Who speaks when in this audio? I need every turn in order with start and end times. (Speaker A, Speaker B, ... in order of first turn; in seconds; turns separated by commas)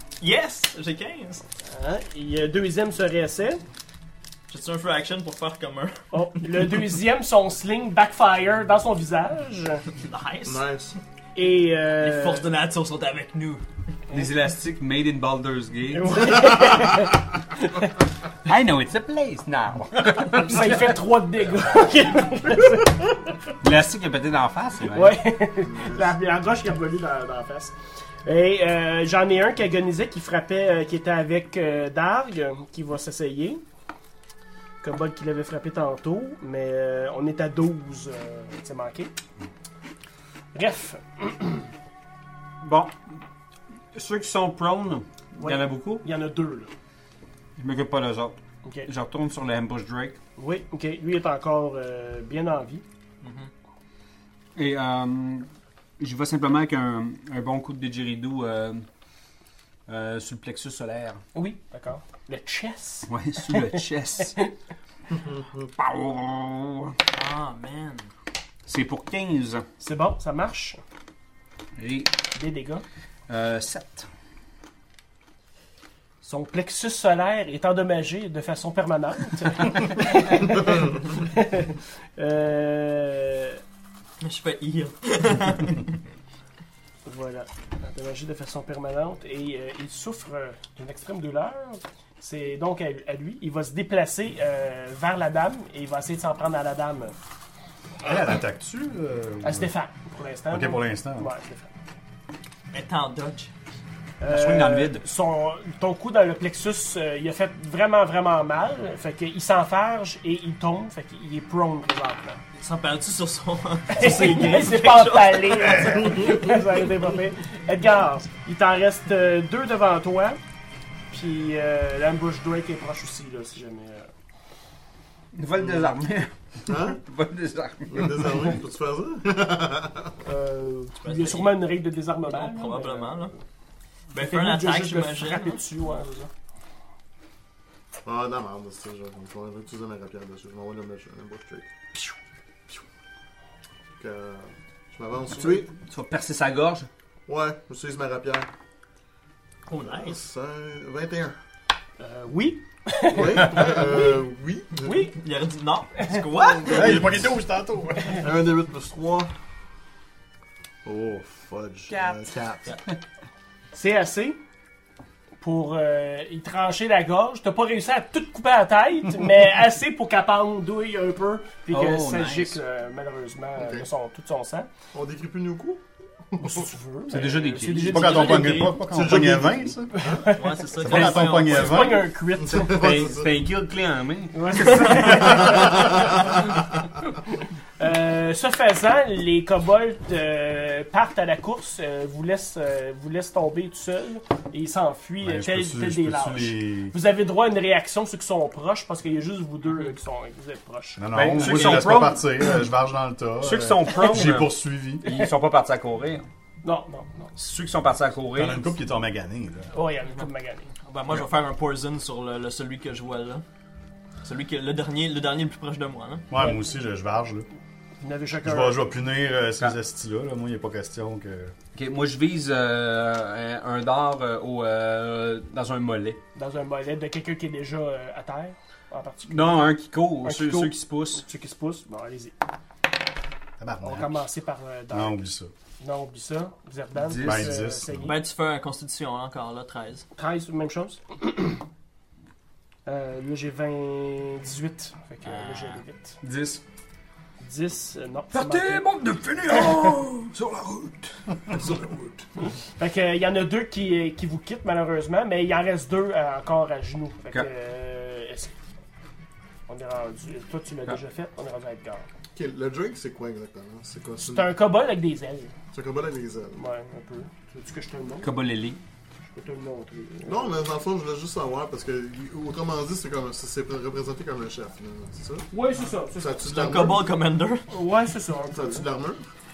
Speaker A: 0.2-1.4, Speaker B: 1.6-3.6, Speaker A: 4.5-6.5, Speaker B: 6.1-9.9, Speaker A: 10.0-10.7, Speaker C: 10.5-11.0, Speaker B: 11.4-12.5, Speaker A: 12.0-13.6, Speaker D: 14.1-16.5, Speaker B: 15.9-17.9, Speaker D: 18.4-21.0, Speaker B: 20.4-23.3, Speaker D: 23.6-25.2, Speaker B: 24.9-27.7, Speaker C: 25.6-26.1, Speaker B: 28.2-33.6, Speaker B: 34.8-39.1, Speaker B: 40.5-41.7, Speaker D: 42.6-43.0, Speaker D: 43.9-46.0, Speaker B: 45.4-46.7, Speaker D: 47.6-50.2, Speaker B: 50.4-52.8, Speaker A: 53.2-53.5, Speaker D: 54.6-55.5, Speaker D: 56.0-58.9, Speaker D: 59.9-61.2, Speaker B: 61.4-64.5, Speaker D: 63.1-64.4, Speaker C: 65.2-65.4, Speaker D: 65.7-67.0, Speaker A: 67.1-68.1, Speaker D: 68.7-69.7, Speaker B: 69.8-70.8, Speaker D: 71.8-72.1, Speaker B: 72.3-72.8, Speaker D: 73.3-74.1, Speaker B: 76.2-83.6, Speaker A: 84.2-86.0, Speaker B: 87.1-97.2, Speaker E: 98.0-99.7, Speaker B: 99.4-101.7, Speaker E: 100.5-101.3, Speaker A: 102.7-103.5, Speaker B: 104.2-112.4, Speaker D: 104.3-105.0, Speaker A: 112.6-116.4, Speaker B: 113.9-120.4, Speaker B: 121.1-124.1, Speaker D: 125.3-128.6, Speaker C: 126.7-127.0, Speaker C: 127.9-130.1, Speaker B: 130.2-133.4, Speaker A: 131.0-131.6, Speaker A: 132.3-133.3, Speaker A: 134.1-135.6, Speaker B: 134.2-136.3, Speaker C: 138.1-141.7, Speaker C: 144.0-145.7, Speaker D: 145.4-146.9, Speaker C: 147.3-148.5, Speaker A: 149.7-150.2, Speaker C: 149.7-151.4, Speaker B: 152.0-154.2, Speaker C: 153.1-155.1, Speaker B: 154.8-155.2, Speaker A: 155.2-157.1, Speaker B: 156.0-156.3, Speaker C: 156.6-157.3, Speaker E: 156.7-158.2, Speaker C: 158.1-159.3, Speaker C: 160.8-162.7, Speaker D: 161.9-162.3, Speaker B: 163.7-164.4, Speaker B: 165.4-174.7, Speaker D: 171.7-172.6, Speaker C: 173.6-173.9, Speaker C: 174.9-175.8, Speaker B: 176.4-178.8, Speaker D: 177.1-178.4, Speaker E: 177.8-180.0, Speaker C: 178.8-180.3, Speaker B: 179.9-182.8, Speaker A: 180.3-182.0, Speaker E: 180.8-182.1, Speaker C: 182.4-183.4, Speaker D: 182.6-185.4, Speaker B: 184.3-186.3, Speaker C: 185.3-186.3, Speaker B: 187.8-201.0, Speaker E: 195.2-196.9, Speaker E: 201.0-205.1, Speaker D: 201.1-202.3, Speaker D: 203.4-206.3, Speaker B: 206.6-207.3, Speaker D: 207.4-208.7, Speaker E: 208.3-209.7, Speaker B: 209.7-210.7, Speaker A: 210.8-213.4, Speaker A: 214.2-216.2, Speaker E: 216.3-217.5, Speaker B: 218.0-218.8, Speaker E: 218.4-221.5, Speaker D: 221.7-226.2, Speaker B: 226.3-229.7, Speaker D: 229.3-231.2, Speaker B: 230.2-232.3, Speaker E: 233.6-234.2, Speaker B: 233.8-235.2, Speaker E: 234.9-235.5, Speaker B: 235.8-238.2, Speaker D: 237.1-237.6, Speaker E: 237.2-238.1, Speaker A: 238.0-240.1, Speaker B: 240.2-241.6, Speaker B: 242.9-246.2, Speaker A: 245.2-245.8, Speaker D: 246.2-246.6, Speaker B: 247.4-248.9, Speaker D: 248.3-251.8, Speaker B: 249.6-249.9, Speaker B: 252.8-258.5, Speaker B: 259.7-262.1, Speaker C: 262.3-264.5, Speaker B: 264.2-265.5, Speaker C: 265.7-266.6, Speaker B: 266.6-268.3, Speaker D: 268.2-268.8, Speaker B: 269.3-270.6, Speaker C: 270.3-275.5, Speaker B: 275.5-276.5, Speaker C: 276.1-277.1, Speaker A: 276.4-277.7, Speaker B: 277.7-278.9, Speaker C: 278.5-279.3